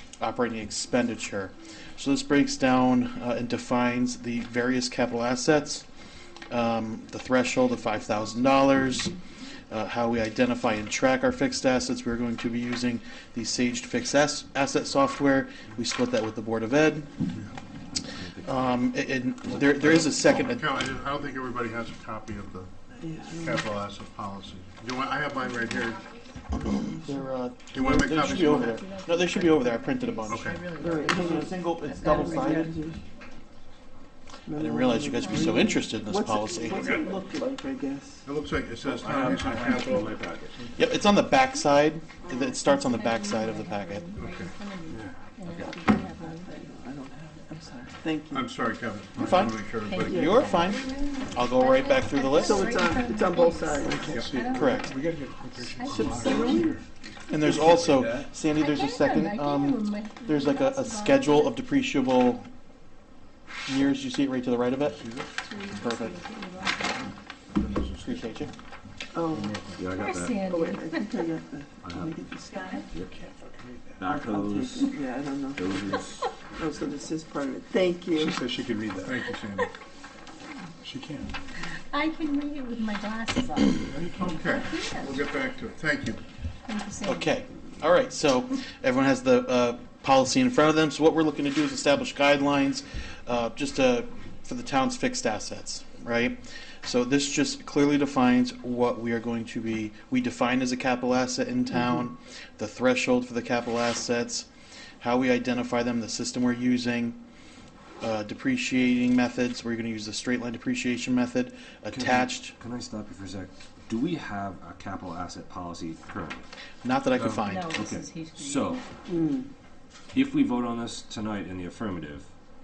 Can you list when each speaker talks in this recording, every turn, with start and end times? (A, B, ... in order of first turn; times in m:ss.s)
0:00.2-0:05.9 A
0:06.5-0:09.2 A
0:09.7-0:17.2 A
0:18.0-0:18.9 B
0:18.4-0:20.6 A
0:19.4-0:19.8 B
0:19.8-0:22.7 C
0:23.0-0:23.6 D
0:23.3-0:26.1 C
0:26.5-0:32.7 A
0:27.7-0:28.8 C
0:27.9-0:32.7 E
0:30.3-0:30.6 C
0:30.8-0:33.0 D
0:34.5-0:38.2 D
0:34.6-0:36.9 A
0:35.3-0:35.7 E
0:36.8-0:37.0 F
0:38.2-0:40.2 C
0:38.9-0:40.6 B
0:39.0-0:40.7 F
0:40.8-0:44.1 A
0:42.3-0:46.6 E
0:44.2-0:44.5 C
0:44.9-0:45.7 B
0:45.6-0:48.5 D
0:48.3-0:50.7 C
0:49.2-0:52.7 A
0:49.9-0:56.2 E
0:50.0-0:50.5 D
0:52.4-0:54.2 D
0:53.8-0:56.9 F
0:54.5-0:54.9 A
0:55.8-0:56.8 D
0:57.3-1:02.5 A
0:57.4-0:58.3 F
0:58.5-1:01.6 E
1:03.7-1:05.0 A
1:04.9-1:05.3 F
1:05.4-1:07.2 E
1:05.7-1:06.2 A
1:07.5-1:08.3 F
1:08.0-1:08.5 A
1:09.1-1:09.6 D
1:09.3-1:09.9 F
1:09.8-1:10.5 B
1:09.9-1:11.3 E
1:10.4-1:12.9 D
1:11.8-1:12.2 B
1:13.1-1:14.1 F
1:14.0-1:16.3 B
1:14.0-1:16.0 D
1:16.5-1:18.4 D
1:18.1-1:19.2 F
1:19.0-1:19.7 C
1:20.8-1:21.4 F
1:21.9-1:25.2 E
1:23.8-1:26.2 C
1:26.7-1:27.3 E
1:27.0-1:44.5 A
1:45.0-1:47.2 A
1:48.0-1:52.6 A
1:51.9-1:56.5 B
1:56.8-1:57.8 A
1:57.2-1:58.8 B
1:57.4-1:58.8 E
1:59.1-1:59.5 D
2:00.1-2:02.3 B